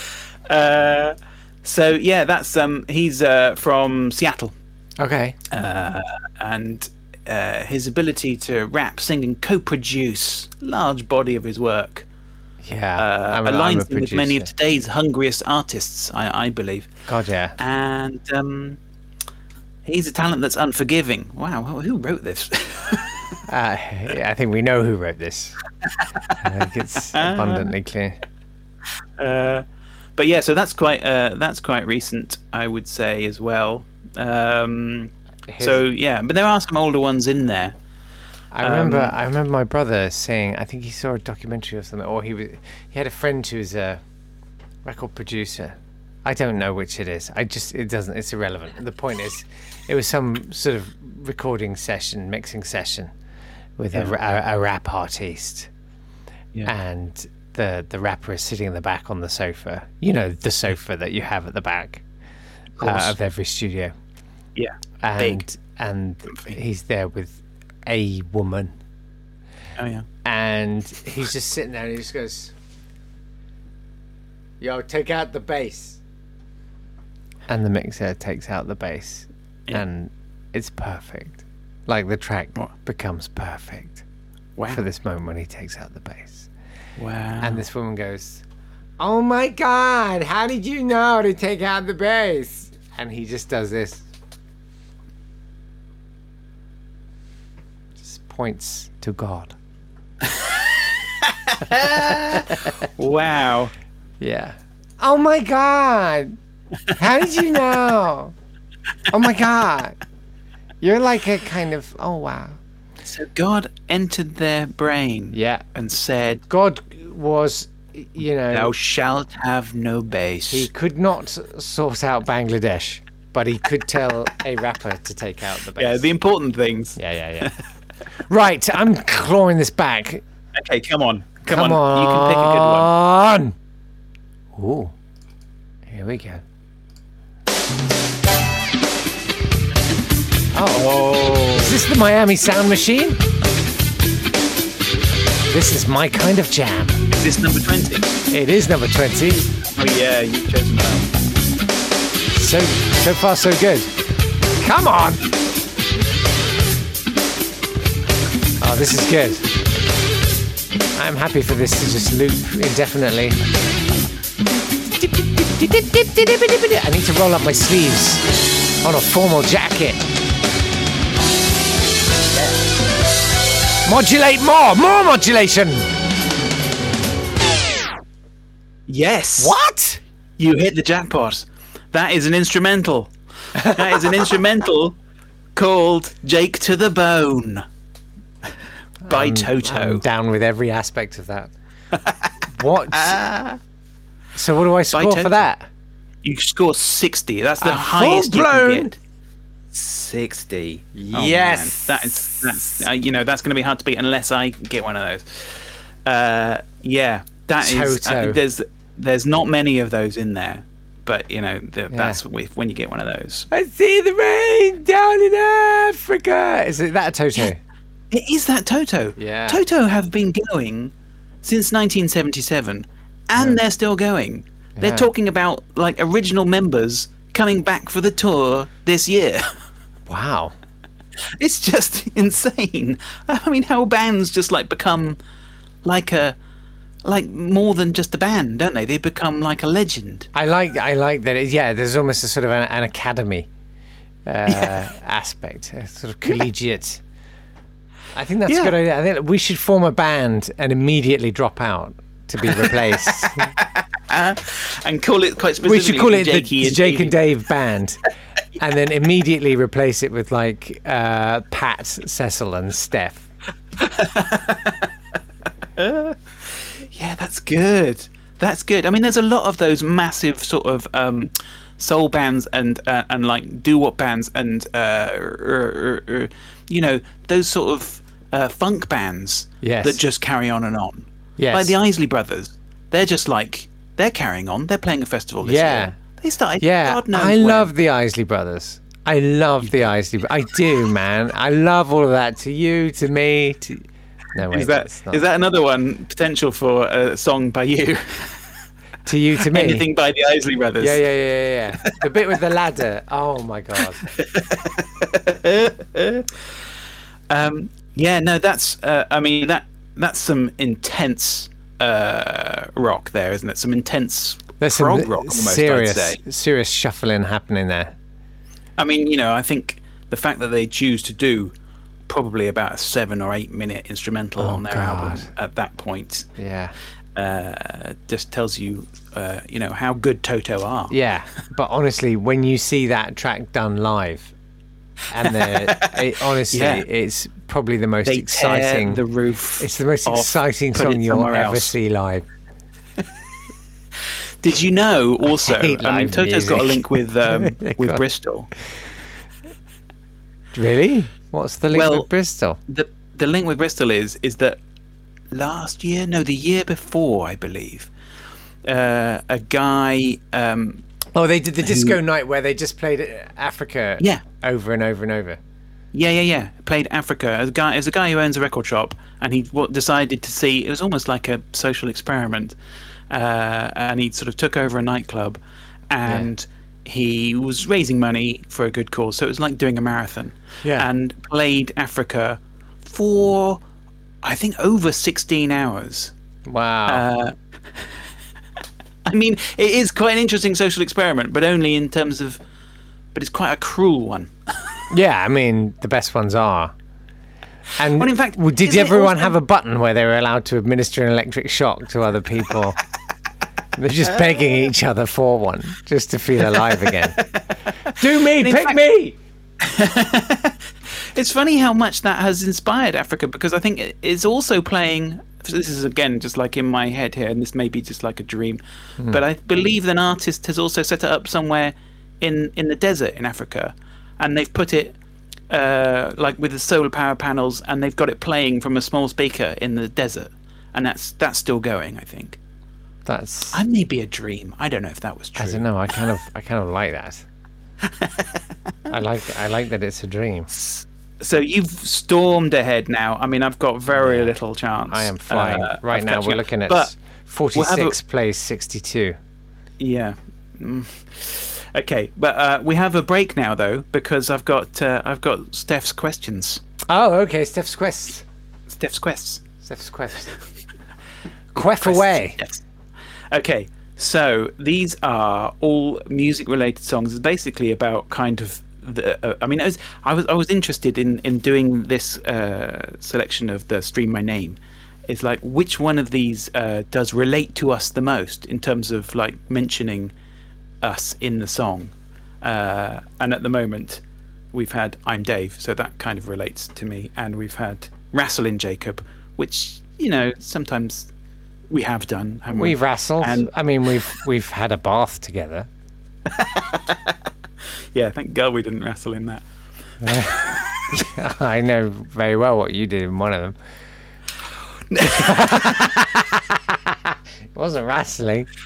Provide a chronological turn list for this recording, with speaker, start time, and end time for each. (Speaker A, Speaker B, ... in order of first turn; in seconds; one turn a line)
Speaker A: 0.5-4.5
Speaker B: 5.0-5.4
Speaker A: 5.5-12.1
Speaker B: 12.6-14.5
Speaker A: 13.0-16.9
Speaker B: 17.1-17.6
Speaker A: 17.6-18.8
Speaker A: 19.8-23.2
Speaker B: 23.5-25.6
Speaker B: 26.4-28.2
Speaker A: 27.1-27.7
Speaker A: 29.2-29.6
Speaker A: 30.2-37.7
Speaker B: 35.5-35.8
Speaker B: 38.5-44.0
Speaker A: 38.6-39.1
Speaker B: 44.8-53.1
Speaker B: 53.8-55.7
Speaker B: 56.6-62.0
Speaker A: 62.8-63.1
Speaker B: 62.8-63.9
Speaker A: 64.5-65.4
Speaker B: 65.0-68.7
Speaker A: 66.3-66.6
Speaker A: 69.8-70.0
Speaker B: 70.2-72.5
Speaker B: 74.6-76.0
Speaker B: 77.5-84.0
Speaker A: 84.6-84.8
Speaker B: 84.7-86.5
Speaker A: 87.0-87.6
Speaker B: 87.4-88.4
Speaker B: 89.0-94.0
Speaker B: 98.0-99.5
Speaker A: 101.5-103.7
Speaker B: 104.2-106.4
Speaker B: 106.9-108.3
Speaker B: 109.1-110.0
Speaker B: 110.8-112.6
Speaker A: 113.0-116.4
Speaker B: 115.3-115.6
Speaker B: 116.5-118.7
Speaker A: 118.5-120.7
Speaker B: 120.5-126.1
Speaker A: 125.8-127.5
Speaker B: 127.0-127.5
Speaker B: 128.3-130.2
Speaker A: 130.5-132.9
Speaker B: 131.4-133.6
Speaker B: 134.5-134.9
Speaker B: 135.9-136.4
Speaker B: 140.5-143.2
Speaker A: 140.7-141.7
Speaker B: 145.5-147.0
Speaker A: 147.1-148.1
Speaker B: 148.3-149.5
Speaker A: 149.6-151.1
Speaker B: 152.3-153.9
Speaker B: 154.6-155.3
Speaker B: 158.6-159.5
Speaker B: 160.9-163.4
Speaker B: 165.0-170.0
Speaker B: 173.8-175.9
Speaker A: 178.9-179.6
Speaker B: 179.4-180.0
Speaker A: 180.4-184.9
Speaker B: 183.6-184.2
Speaker A: 185.6-187.6
Speaker B: 189.0-191.5
Speaker A: 189.1-190.0
Speaker B: 192.5-193.2
Speaker A: 192.9-193.6
Speaker B: 194.3-195.7
Speaker A: 194.9-195.4
Speaker A: 196.2-198.9
Speaker B: 197.6-198.9
Speaker A: 199.7-213.5
Speaker B: 200.9-202.8
Speaker B: 207.6-208.4
Speaker B: 211.9-212.2
Speaker B: 213.5-217.6
Speaker A: 218.1-220.9
Speaker B: 219.2-219.6
Speaker A: 221.4-229.5
Speaker B: 224.8-225.1
Speaker B: 230.1-230.5
Speaker A: 231.4-235.2
Speaker A: 235.8-236.3
Speaker A: 237.0-240.3
Speaker B: 240.3-243.5
Speaker B: 244.2-247.0
Speaker A: 244.5-244.7
Speaker B: 248.1-253.5
Speaker A: 248.5-248.8
Speaker A: 252.5-253.3
Speaker A: 254.1-257.2
Speaker B: 255.6-258.0
Speaker B: 258.6-263.2
Speaker A: 263.8-264.8
Speaker A: 265.8-287.7
Speaker B: 279.6-280.0
Speaker B: 281.4-281.8
Speaker B: 285.4-286.0
Speaker B: 286.6-295.2
Speaker A: 294.5-298.4
Speaker B: 299.1-299.9
Speaker A: 299.4-301.0
Speaker B: 300.8-304.0
Speaker A: 304.1-306.2
Speaker A: 307.3-316.2
Speaker B: 314.6-318.0
Speaker A: 318.8-321.5
Speaker A: 322.1-326.3
Speaker B: 324.4-325.3
Speaker B: 326.4-326.7
Speaker A: 327.1-331.0
Speaker B: 330.9-334.3
Speaker B: 335.1-339.0
Speaker A: 335.2-336.0
Speaker A: 336.5-336.9
Speaker A: 338.0-341.7
Speaker B: 339.6-342.2
Speaker A: 344.4-348.5
Speaker B: 345.2-348.0
Speaker B: 350.5-352.6
Speaker A: 351.7-352.1
Speaker A: 352.7-354.6
Speaker A: 355.3-357.9
Speaker A: 358.6-360.8
Speaker B: 361.1-365.4
Speaker A: 361.6-362.0
Speaker A: 365.9-372.5
Speaker A: 373.1-375.4
Speaker A: 375.9-383.6
Speaker A: 384.2-386.1
Speaker B: 386.4-387.0
Speaker A: 386.9-387.3
Speaker A: 389.1-392.4
Speaker A: 393.1-394.3
Speaker B: 394.9-396.7
Speaker B: 397.8-402.8
Speaker A: 397.9-399.4
Speaker B: 403.8-407.2
Speaker A: 407.2-408.8
Speaker B: 407.9-409.2
Speaker A: 409.6-424.9
Speaker A: 425.5-432.4
Speaker B: 433.1-433.6
Speaker A: 433.5-435.7
Speaker B: 435.4-437.2
Speaker B: 438.9-440.5
Speaker A: 440.5-446.9
Speaker B: 443.9-444.3
Speaker B: 444.9-449.2
Speaker A: 447.5-447.9
Speaker A: 449.8-456.6
Speaker B: 456.9-458.2
Speaker A: 458.7-459.4
Speaker B: 459.6-460.3
Speaker B: 461.5-462.4
Speaker A: 461.6-462.6
Speaker A: 463.3-480.1
Speaker A: 480.8-484.0
Speaker A: 484.5-491.1
Speaker A: 491.7-493.5
Speaker B: 492.5-495.7
Speaker A: 496.3-497.0
Speaker A: 497.9-499.4
Speaker B: 500.0-503.6
Speaker A: 504.9-505.9
Speaker B: 505.0-508.5